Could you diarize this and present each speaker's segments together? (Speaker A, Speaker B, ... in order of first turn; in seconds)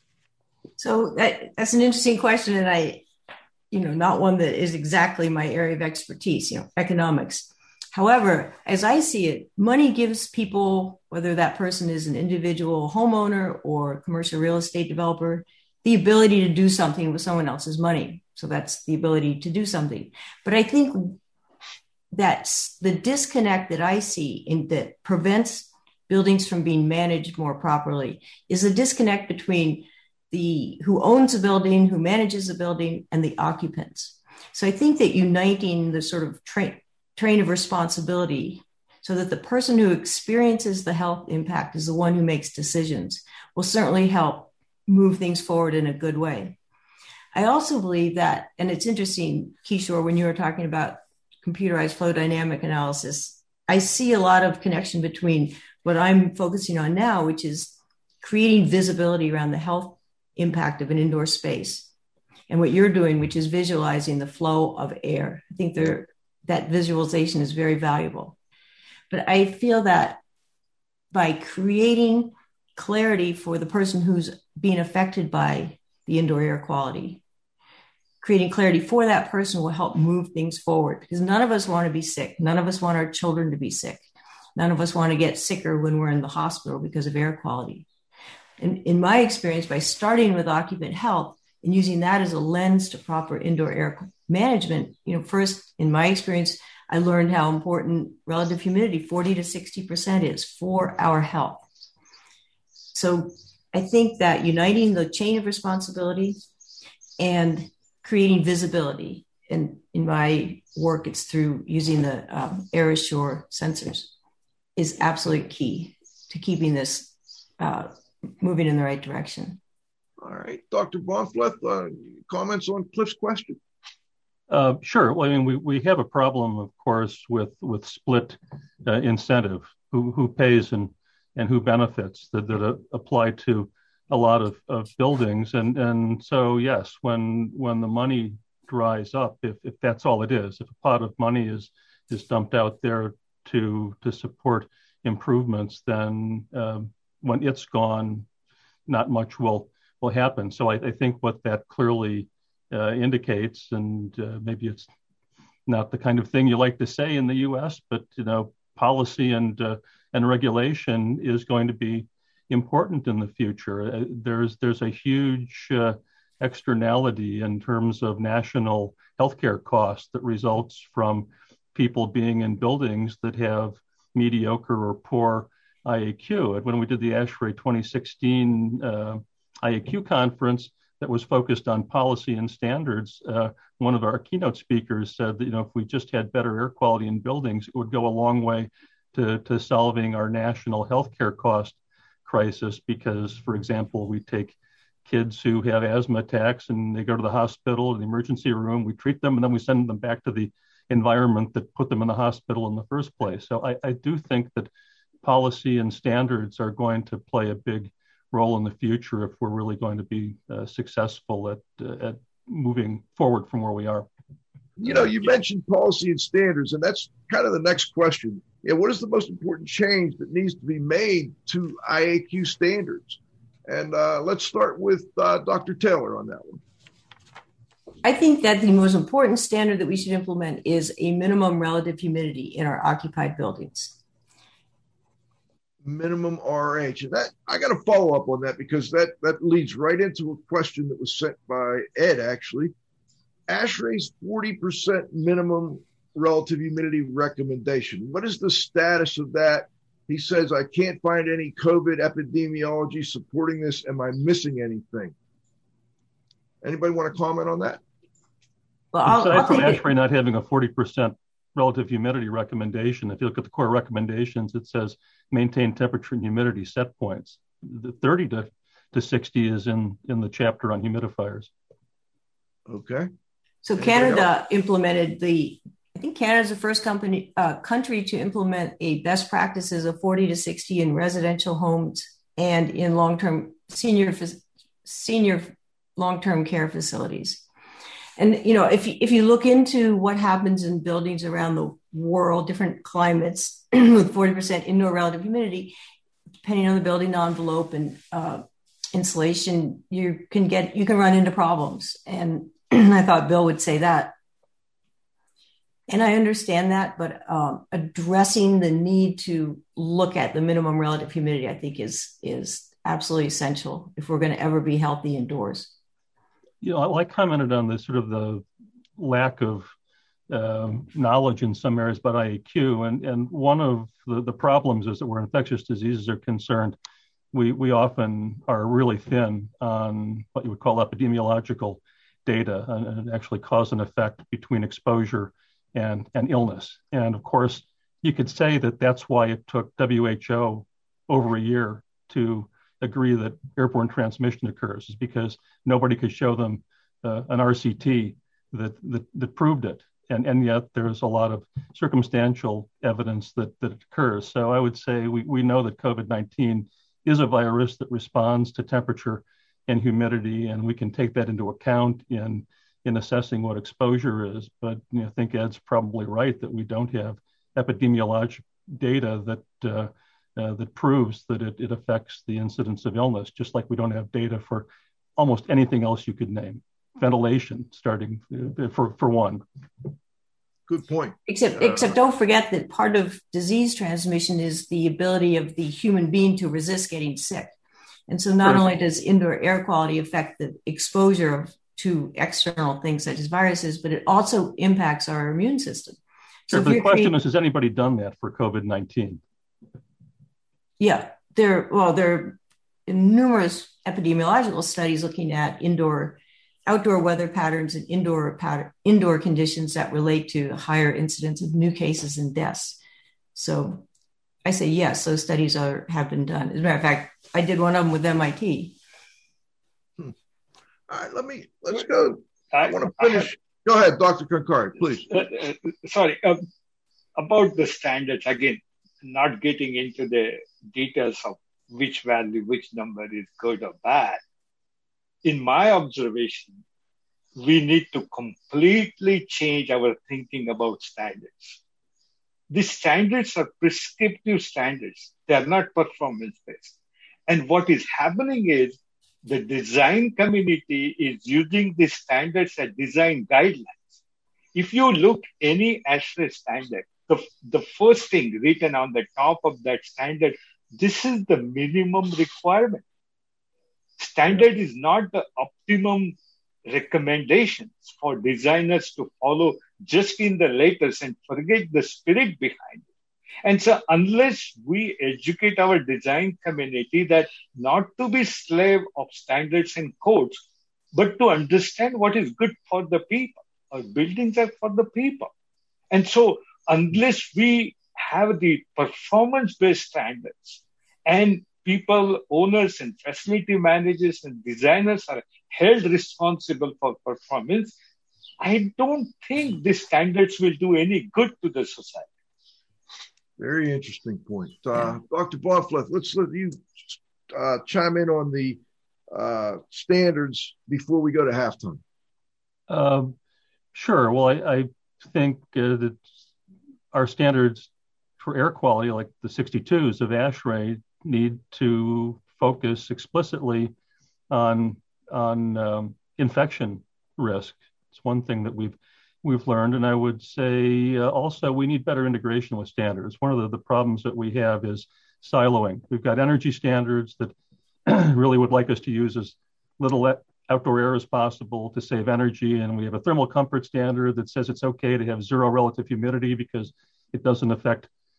Speaker A: 0.8-3.0, 3.7-21.2, 22.1-46.6, 47.3-61.9, 62.5-68.4, 69.1-70.2, 71.1-77.2, 78.2-84.0, 84.6-87.9, 88.6-101.6, 102.9-106.4, 107.2-114.1, 114.8-119.6, 228.0-234.0, 258.9-259.8, 273.6-287.4, 288.2-295.7, 296.4-304.1, 305.9-315.7, 381.3-387.5, 388.1-397.1, 400.8-412.8, 413.4-413.9, 414.4-418.8
Speaker B: 120.2-123.6, 214.8-226.6, 235.8-242.7, 243.5-255.2, 256.6-257.8, 272.7-273.1, 273.8-274.3, 380.7-381.9, 420.9-425.1, 503.4-511.8
Speaker C: 124.5-148.3, 148.9-154.9, 155.7-204.7, 205.2-214.1, 259.1-271.5, 316.6-318.5, 319.0-319.7, 320.3-326.8, 327.3-379.4, 396.5-399.2, 512.7-513.1, 513.7-516.0, 516.9-523.7, 524.3-537.3, 537.9-547.9
Speaker D: 422.5-423.3, 425.1-426.4, 427.2-434.2, 435.2-436.6, 437.4-441.6, 442.5-446.7, 447.3-453.9, 454.5-462.8, 464.0-472.9, 473.4-485.3, 485.9-497.8, 498.4-502.1